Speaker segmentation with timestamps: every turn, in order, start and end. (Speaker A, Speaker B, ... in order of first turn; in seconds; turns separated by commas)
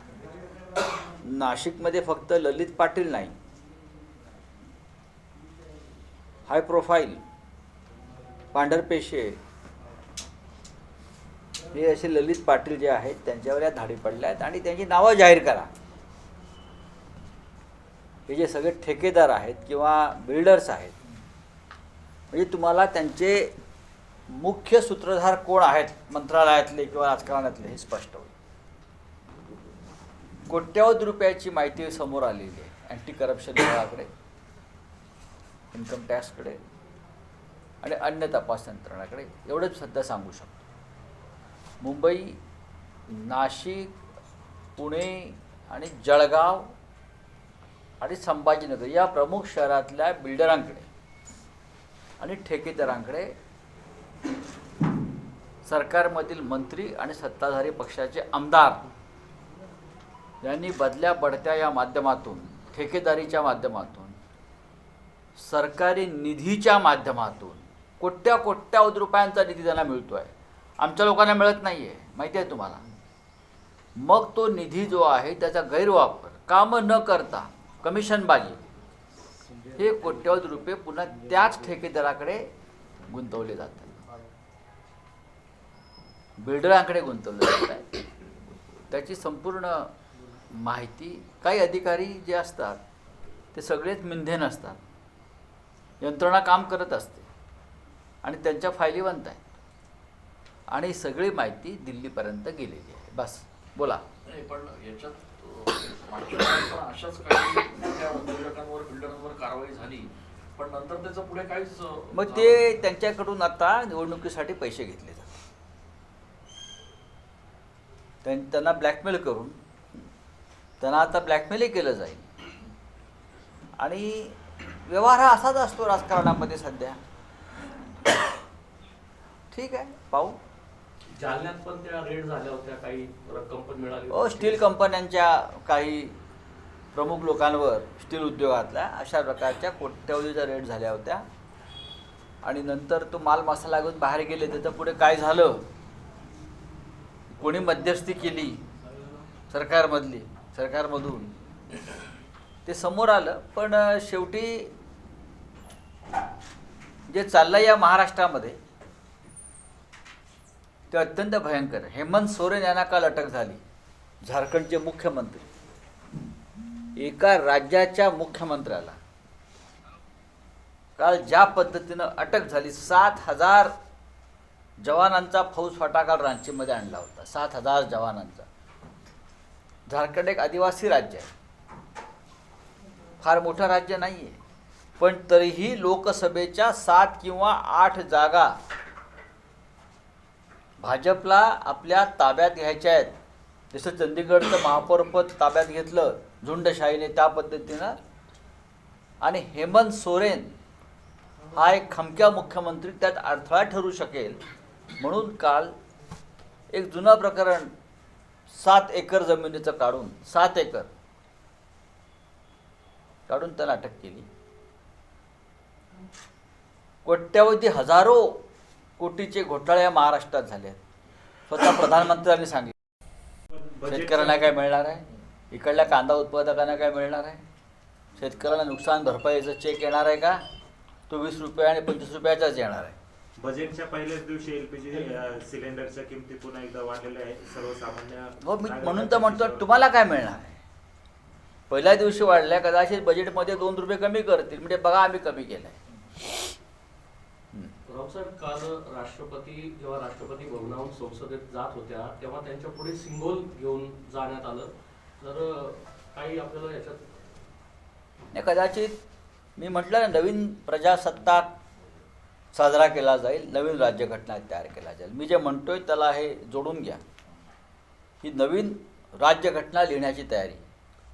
Speaker A: 1.2-3.3, Speaker A: 6.5-7.2, Speaker A: 8.5-9.4, Speaker A: 11.7-15.7, Speaker A: 18.3-20.9, Speaker A: 22.3-23.5, Speaker A: 24.3-28.3, Speaker A: 30.5-34.1, Speaker A: 35.7-36.6, Speaker A: 37.8-40.6, Speaker A: 41.8-42.4, Speaker A: 43.1-43.9, Speaker A: 44.8-46.7, Speaker A: 48.0-50.9, Speaker A: 52.2-53.3, Speaker A: 55.6-58.8, Speaker A: 60.4-64.2, Speaker A: 65.3-72.8, Speaker A: 74.0-78.6, Speaker A: 79.8-82.5, Speaker A: 83.1-84.0, Speaker A: 86.4-87.8, Speaker A: 88.9-89.9, Speaker A: 90.5-92.8, Speaker A: 93.5-94.8, Speaker A: 96.0-97.3, Speaker A: 98.2-99.4, Speaker A: 100.7-104.0, Speaker B: 104.2-112.7, Speaker A: 112.1-115.3, Speaker A: 118.2-119.6, Speaker A: 120.8-122.2, Speaker A: 123.8-127.0, Speaker A: 129.5-130.4, Speaker C: 131.1-134.6, Speaker A: 134.1-136.2, Speaker A: 136.9-141.2, Speaker A: 142.4-145.6, Speaker A: 147.3-148.6, Speaker A: 149.5-151.3, Speaker A: 152.7-154.7, Speaker A: 157.1-158.6, Speaker A: 160.9-163.6, Speaker A: 164.2-165.5, Speaker A: 166.9-169.0, Speaker A: 171.0-173.7, Speaker A: 174.8-178.5, Speaker A: 179.9-181.3, Speaker A: 183.2-184.4, Speaker A: 185.0-188.6, Speaker A: 190.8-193.1, Speaker A: 193.7-197.9, Speaker A: 199.2-200.5, Speaker A: 201.5-204.4, Speaker A: 205.0-205.7, Speaker A: 206.7-207.7, Speaker A: 208.5-210.9, Speaker A: 213.3-214.3, Speaker A: 217.0-218.4, Speaker A: 219.0-220.8, Speaker A: 221.5-222.7, Speaker D: 223.5-224.5, Speaker A: 223.9-227.4, Speaker A: 228.2-230.4, Speaker A: 231.1-233.0, Speaker D: 233.4-239.7, Speaker A: 238.4-240.6, Speaker A: 241.7-245.8, Speaker C: 247.8-257.1, Speaker A: 258.3-258.9, Speaker A: 259.6-261.5, Speaker A: 262.5-267.0, Speaker A: 268.2-270.6